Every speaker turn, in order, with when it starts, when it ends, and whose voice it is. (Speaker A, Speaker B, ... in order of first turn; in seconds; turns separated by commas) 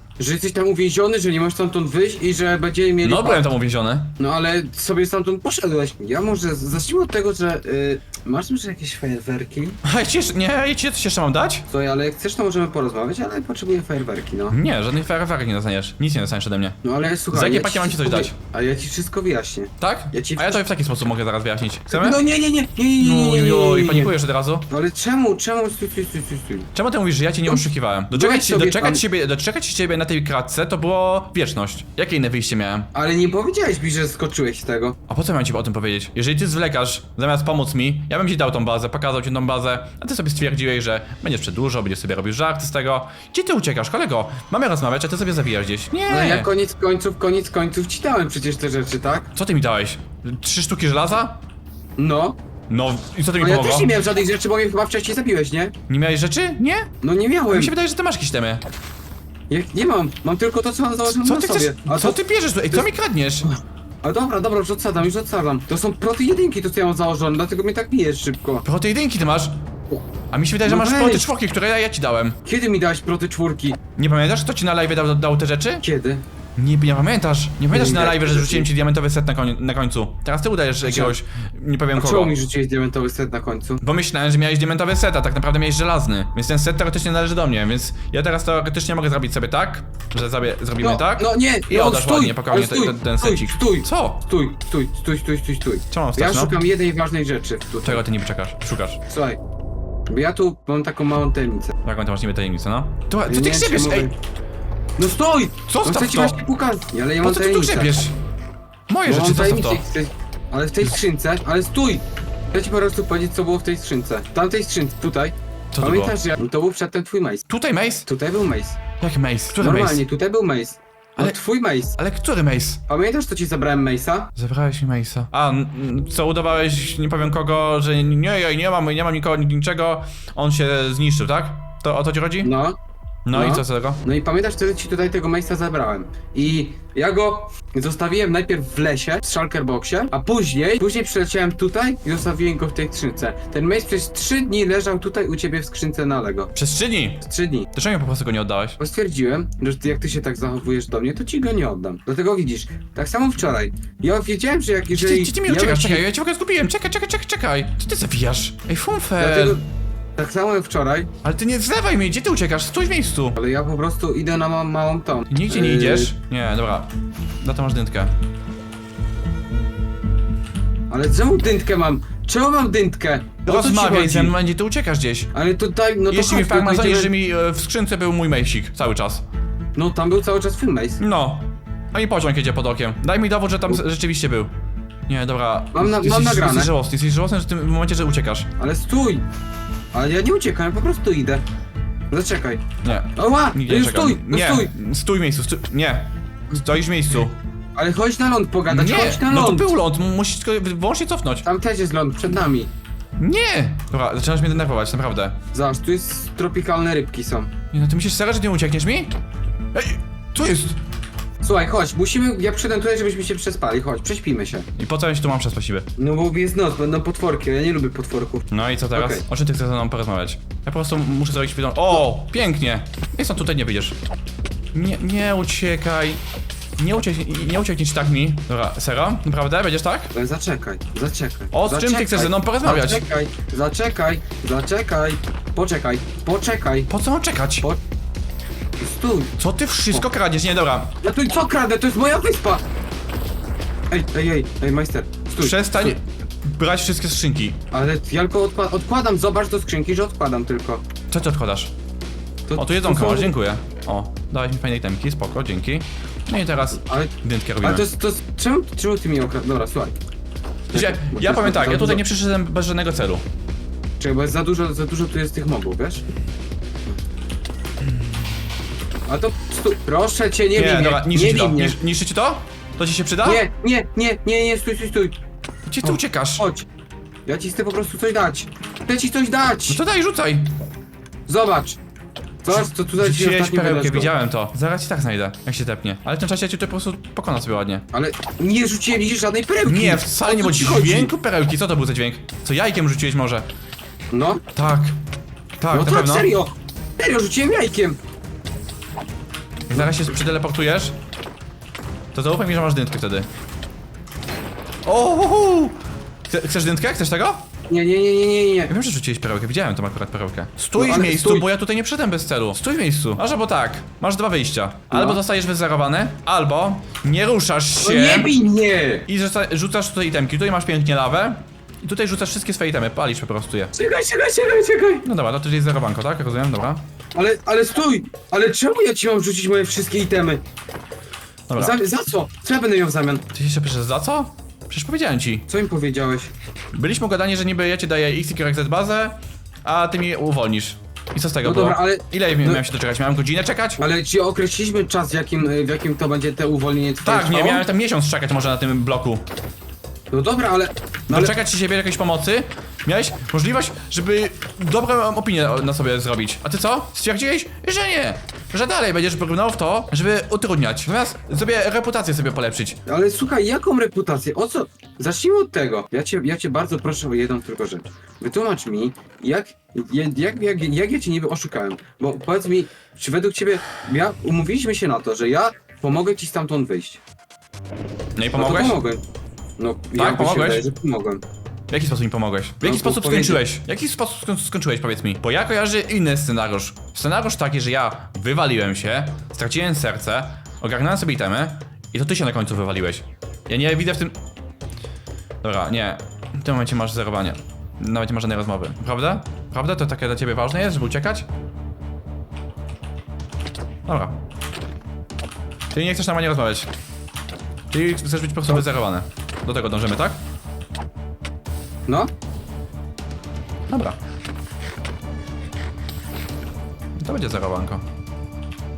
Speaker A: 0.2-3.5, Speaker B: 3.0-4.2, Speaker A: 4.2-9.8, Speaker B: 9.8-11.7, Speaker A: 11.7-14.6, Speaker B: 14.5-16.8, Speaker A: 16.8-20.6, Speaker B: 17.3-18.3, Speaker B: 19.8-22.2, Speaker A: 21.9-24.2, Speaker B: 23.0-24.7, Speaker A: 24.7-26.7, Speaker B: 26.7-32.9, Speaker A: 27.5-29.0, Speaker A: 32.9-35.0, Speaker B: 35.1-46.5, Speaker A: 46.1-49.3, Speaker B: 49.3-51.4, Speaker A: 52.0-52.4, Speaker B: 52.7-53.9, Speaker A: 53.4-55.7, Speaker B: 55.9-56.9, Speaker A: 57.0-57.7, Speaker B: 57.5-58.6, Speaker A: 59.5-62.9, Speaker B: 61.1-63.5, Speaker A: 63.4-68.6, Speaker B: 68.6-69.6, Speaker B: 70.3-72.4, Speaker A: 70.6-71.3, Speaker A: 72.4-73.8, Speaker B: 74.0-75.8, Speaker A: 75.8-76.2, Speaker B: 76.6-82.3, Speaker A: 77.7-78.7, Speaker A: 80.8-81.1, Speaker A: 81.9-83.8, Speaker B: 83.8-94.2, Speaker A: 90.8-98.0, Speaker B: 95.9-96.6, Speaker B: 97.8-99.0, Speaker A: 99.1-99.4, Speaker A: 100.1-101.7, Speaker B: 101.8-104.1, Speaker A: 103.2-104.1, Speaker A: 105.0-108.0, Speaker B: 105.7-106.4, Speaker B: 107.2-108.1, Speaker B: 108.9-109.8, Speaker A: 109.0-117.5, Speaker B: 115.7-116.1, Speaker B: 117.5-118.1, Speaker A: 118.0-118.8, Speaker B: 119.0-120.0, Speaker A: 119.6-122.0, Speaker B: 122.0-122.8, Speaker A: 122.9-124.3, Speaker B: 124.3-132.5, Speaker A: 132.4-132.8, Speaker B: 133.2-134.0, Speaker A: 133.3-146.5, Speaker B: 146.5-148.8, Speaker A: 147.2-147.7, Speaker A: 148.8-156.0, Speaker B: 154.9-159.6, Speaker A: 159.2-161.1, Speaker B: 161.2-163.4, Speaker A: 163.4-166.1, Speaker B: 165.3-166.9, Speaker B: 167.4-168.1, Speaker A: 170.9-174.3, Speaker B: 173.4-175.3, Speaker A: 175.3-177.1, Speaker B: 176.1-179.2, Speaker A: 179.7-181.0, Speaker B: 181.0-184.5, Speaker B: 185.1-188.5, Speaker A: 185.7-186.7, Speaker A: 188.6-189.2, Speaker A: 189.9-191.4, Speaker A: 192.1-192.6, Speaker B: 192.8-197.3, Speaker A: 193.2-194.7, Speaker A: 197.7-199.7, Speaker B: 198.7-201.4, Speaker A: 201.4-202.7, Speaker B: 203.2-205.3, Speaker A: 205.5-207.5, Speaker B: 207.7-209.2, Speaker B: 209.7-210.8, Speaker A: 211.4-214.7, Speaker B: 214.8-215.9, Speaker A: 216.0-219.2, Speaker B: 218.5-223.9, Speaker B: 224.7-226.2, Speaker B: 226.8-230.1, Speaker A: 230.1-236.9, Speaker B: 231.5-233.0, Speaker B: 236.9-237.7, Speaker A: 238.8-239.3, Speaker B: 239.4-240.9, Speaker A: 241.0-242.6, Speaker A: 243.9-245.9, Speaker B: 245.4-247.6, Speaker A: 247.7-250.8, Speaker B: 251.1-251.7, Speaker A: 252.5-253.3, Speaker B: 252.6-257.9, Speaker A: 256.8-259.9, Speaker A: 260.7-262.0, Speaker B: 260.7-263.2, Speaker A: 264.0-266.0, Speaker A: 269.1-271.8, Speaker B: 270.5-273.4, Speaker A: 273.2-275.1, Speaker B: 275.7-276.5, Speaker A: 275.8-276.7, Speaker A: 277.2-279.8, Speaker B: 279.7-280.5, Speaker A: 281.3-281.8, Speaker A: 282.4-284.1, Speaker B: 282.5-287.8, Speaker A: 287.9-291.1, Speaker B: 289.6-293.5, Speaker A: 294.1-294.4, Speaker B: 294.5-295.0, Speaker B: 295.6-296.3, Speaker A: 295.7-298.0, Speaker B: 299.7-300.9, Speaker B: 302.1-303.3, Speaker B: 304.8-305.8, Speaker B: 306.3-307.4, Speaker A: 307.7-308.7, Speaker B: 308.7-318.4, Speaker A: 310.8-311.5, Speaker A: 314.9-315.2, Speaker A: 317.8-319.1, Speaker B: 319.1-323.7, Speaker A: 323.7-325.0, Speaker B: 325.0-326.8, Speaker A: 327.1-330.4, Speaker B: 331.5-331.8, Speaker A: 331.6-333.2, Speaker B: 333.3-335.4, Speaker A: 335.5-336.3, Speaker B: 336.7-343.8, Speaker A: 341.4-342.6, Speaker A: 343.8-347.6, Speaker B: 347.0-349.2, Speaker A: 350.1-351.4, Speaker B: 351.1-362.8, Speaker A: 362.9-377.0, Speaker B: 378.2-378.8, Speaker A: 378.4-379.0, Speaker A: 379.6-381.2, Speaker B: 379.9-380.6, Speaker B: 381.7-394.1, Speaker A: 382.6-383.4, Speaker B: 395.4-401.3, Speaker B: 403.9-404.2, Speaker B: 405.7-406.7, Speaker B: 407.7-410.2, Speaker B: 413.7-414.0, Speaker B: 417.0-417.8